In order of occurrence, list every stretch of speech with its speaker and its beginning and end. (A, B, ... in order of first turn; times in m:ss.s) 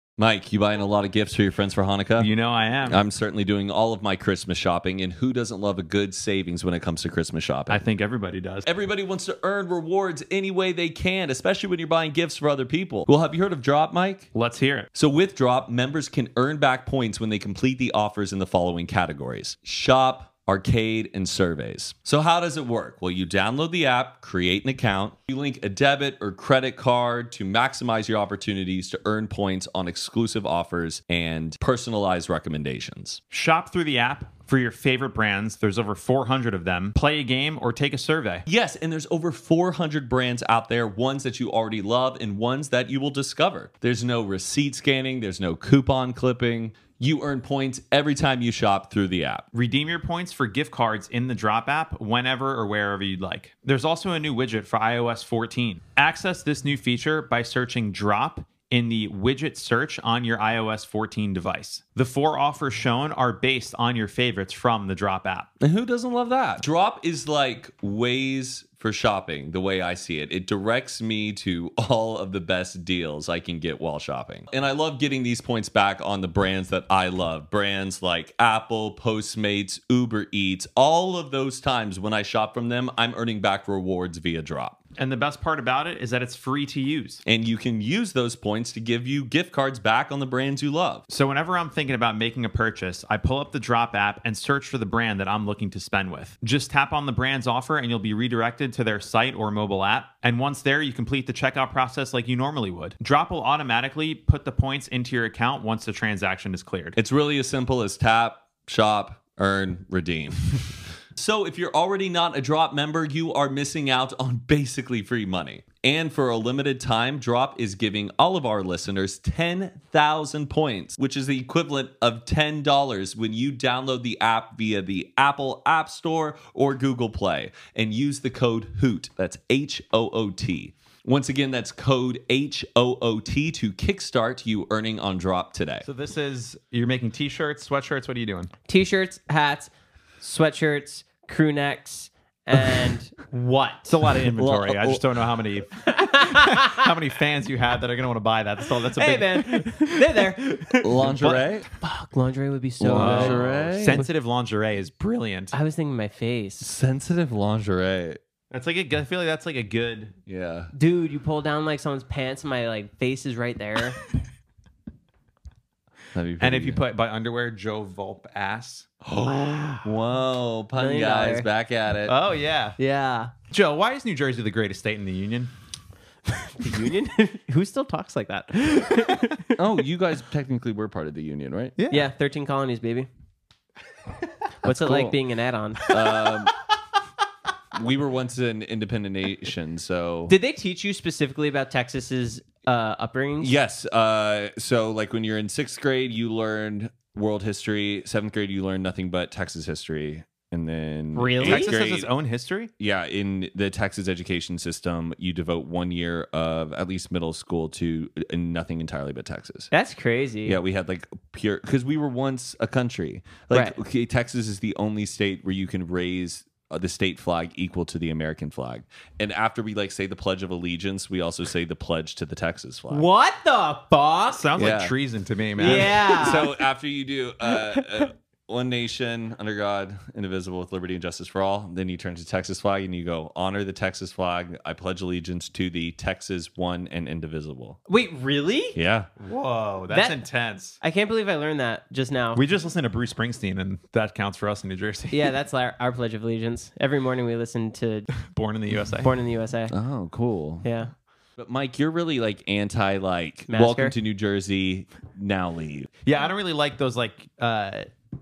0:00.2-0:02.3 A
0:02.2-0:03.0 B
0:02.8-0:07.8 A
0:07.7-0:08.6 B
0:08.6-0:14.3 A
0:14.3-0:14.9 B
0:15.0-0:33.2 A
0:33.3-0:38.5 B
0:38.5-0:49.5 A
0:49.5-1:05.5 B
1:05.6-1:24.8 A
1:25.0-1:27.2 B
1:27.3-1:31.0 A
1:31.1-1:47.0 B
1:47.0-2:15.8 A
2:15.8-2:18.5 B
2:18.7-2:23.9 C
2:23.8-2:30.0 B
2:24.4-2:25.0 A
2:25.8-2:26.9 C
2:29.0-2:31.2 C
2:30.8-2:31.7 A
2:31.0-2:31.5 B
2:31.8-2:33.5 C
2:32.8-2:34.1 A
2:32.9-2:35.5 B
2:35.5-2:36.7 C
2:36.6-2:38.2 A
2:38.5-2:40.1 B
2:40.3-2:40.7 A
2:40.7-2:44.0 C
2:46.1-2:46.8 A
2:46.4-2:49.9 B
2:49.8-2:52.2 A
2:50.8-2:51.5 C
2:52.1-2:52.8 B
2:52.8-2:53.3 C
2:53.5-2:55.5 B
2:56.3-2:59.6 C
2:59.6-3:01.8 A
3:01.8-3:02.1 B
3:01.9-3:03.1 C
3:04.6-3:05.8 C
3:04.6-3:05.2 A
3:05.9-3:06.5 A
3:07.7-3:10.3 A
3:10.3-3:13.6 C
3:13.4-3:22.1 A
3:21.2-3:21.8 C
3:21.4-3:22.7 B
3:22.8-3:29.7 A
3:29.7-3:30.6 C
3:30.4-3:43.1 A
3:42.9-3:44.5 C
3:44.4-3:46.3 B
3:44.6-3:45.0 A
3:45.6-3:57.8 A
3:45.6-3:46.5 C
3:57.9-3:58.8 C
3:58.8-3:59.1 A
3:59.2-4:00.8 B
3:59.9-4:00.2 C
4:00.8-4:02.4 C
4:02.4-4:05.3 B
4:05.1-4:08.1 C
4:08.2-4:09.1 B
4:09.0-4:09.7 C
4:09.7-4:10.7 A
4:10.6-4:10.9 C
4:11.4-4:15.9 A
4:13.5-4:14.0 C
4:16.0-4:17.9 B